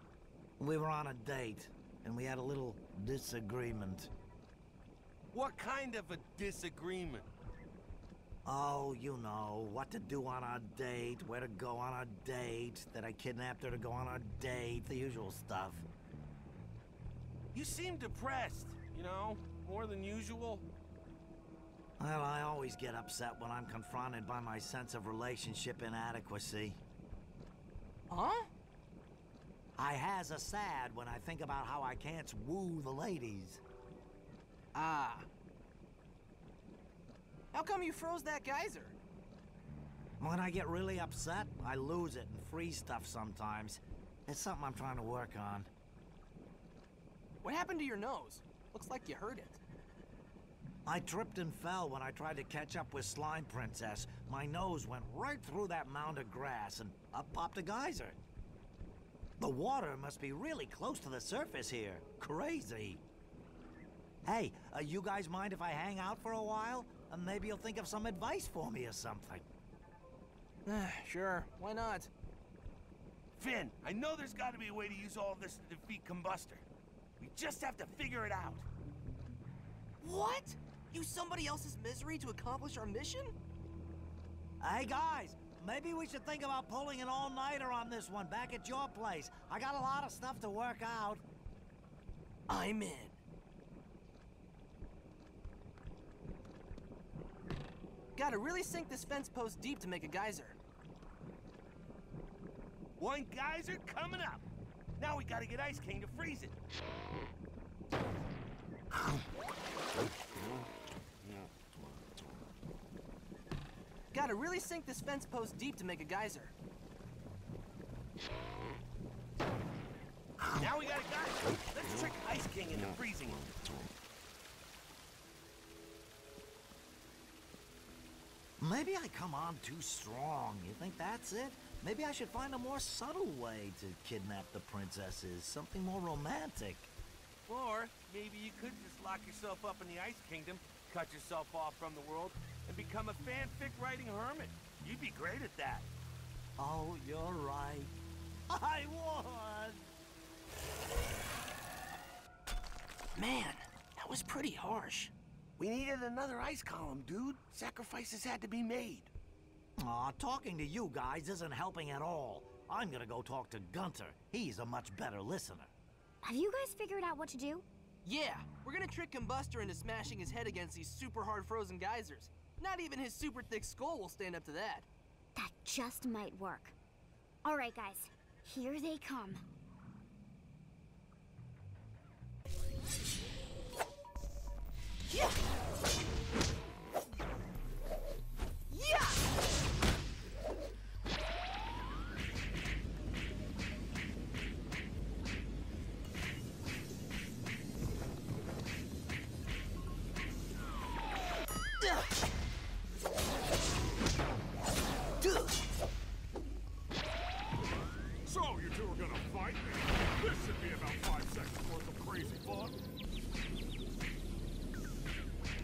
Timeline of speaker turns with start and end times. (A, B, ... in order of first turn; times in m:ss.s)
0:00.6-0:04.1 A
0:05.3-0:07.3 B
0:08.4-0:15.8 A
0:17.5-0:20.7 B
0:22.0-0:26.8 A
0:28.1-0:28.5 C
0:29.8-0:33.6 A
0:34.7-0:35.3 C
0:37.5-0:39.0 C
0:40.2-0:45.7 A
0:47.4-0:49.6 C
0:50.9-0:58.2 A
0:59.4-1:03.0 A
1:04.2-1:09.5 A
1:10.7-1:12.1 C
1:13.4-1:16.6 B
1:17.2-1:18.6 B
1:20.0-1:23.4 C
1:24.6-1:31.2 A
1:32.5-1:33.2 C
1:38.2-1:40.6 C
1:43.0-1:44.4 B
1:45.0-1:46.6 B
1:54.1-1:56.5 C
2:00.5-2:03.5 B
2:08.6-2:16.9 A
2:17.5-2:25.9 B
2:26.6-2:28.0 A
2:28.5-2:29.9 A
2:33.2-2:35.1 C
2:35.6-2:39.1 B
2:39.8-2:45.7 A
2:46.2-2:47.7 D
2:48.0-2:54.9 C
2:55.4-2:56.8 D
2:57.4-2:59.4 D
3:08.7-3:09.2 C
3:28.3-3:32.8 E